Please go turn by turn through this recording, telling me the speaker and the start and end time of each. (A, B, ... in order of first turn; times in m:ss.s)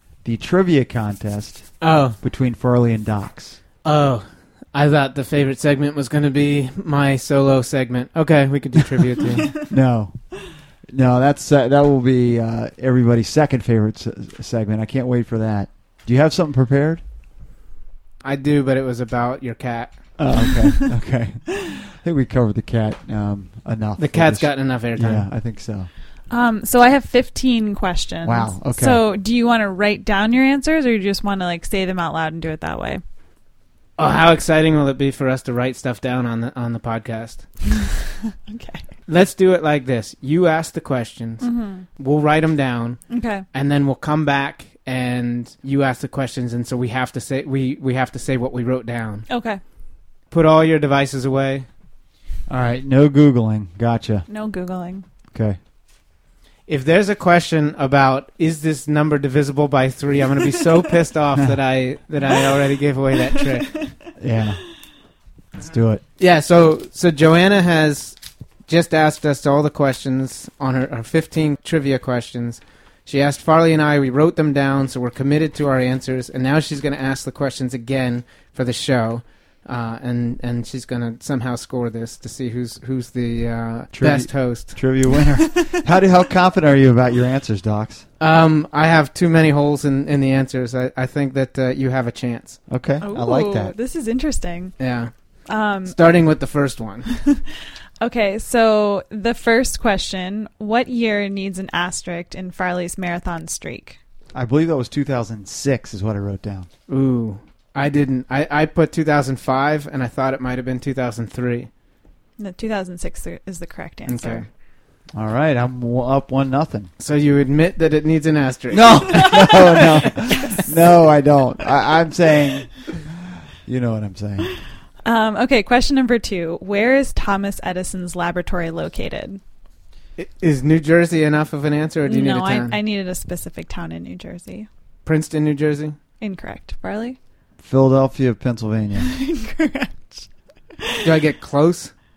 0:00.2-0:03.6 A
0:01.8-0:02.2 B
0:03.8-0:09.6 B
0:09.7-0:17.0 A
0:18.2-0:20.3 B
0:20.2-0:25.9 A
0:24.0-0:25.3 B
0:26.3-0:33.0 C
0:28.2-0:29.0 A
0:34.0-0:37.4 B
0:38.4-0:38.9 C
0:39.1-0:49.2 B
0:41.4-0:41.9 C
0:43.1-0:43.4 C
0:49.3-0:49.6 C
0:50.3-0:51.7 B
0:52.5-0:54.3 A
0:54.3-0:55.0 C
0:56.7-1:03.9 B
1:04.2-1:04.6 A
1:05.6-1:06.0 A
1:06.2-1:25.0 B
1:23.9-1:28.0 A
1:25.1-1:25.8 C
1:28.2-1:32.6 B
1:32.7-1:33.7 A
1:33.0-1:34.8 C
1:34.8-1:35.1 B
1:35.5-1:36.0 C
1:35.6-1:37.1 B
1:37.1-1:37.4 C
1:38.0-1:44.0 C
1:44.3-1:46.7 A
1:46.9-1:51.7 B
1:52.4-1:54.4 C
1:54.1-1:54.5 B
1:55.1-1:56.9 A
1:57.0-1:59.9 B
1:58.7-2:04.5 A
2:05.0-2:09.4 C
2:10.2-2:12.8 B
2:12.0-2:14.7 C
2:15.1-2:16.0 B
2:16.2-2:17.2 C
2:17.6-2:19.1 A
2:19.0-2:20.3 C
2:20.8-2:21.1 C
2:21.0-2:21.9 B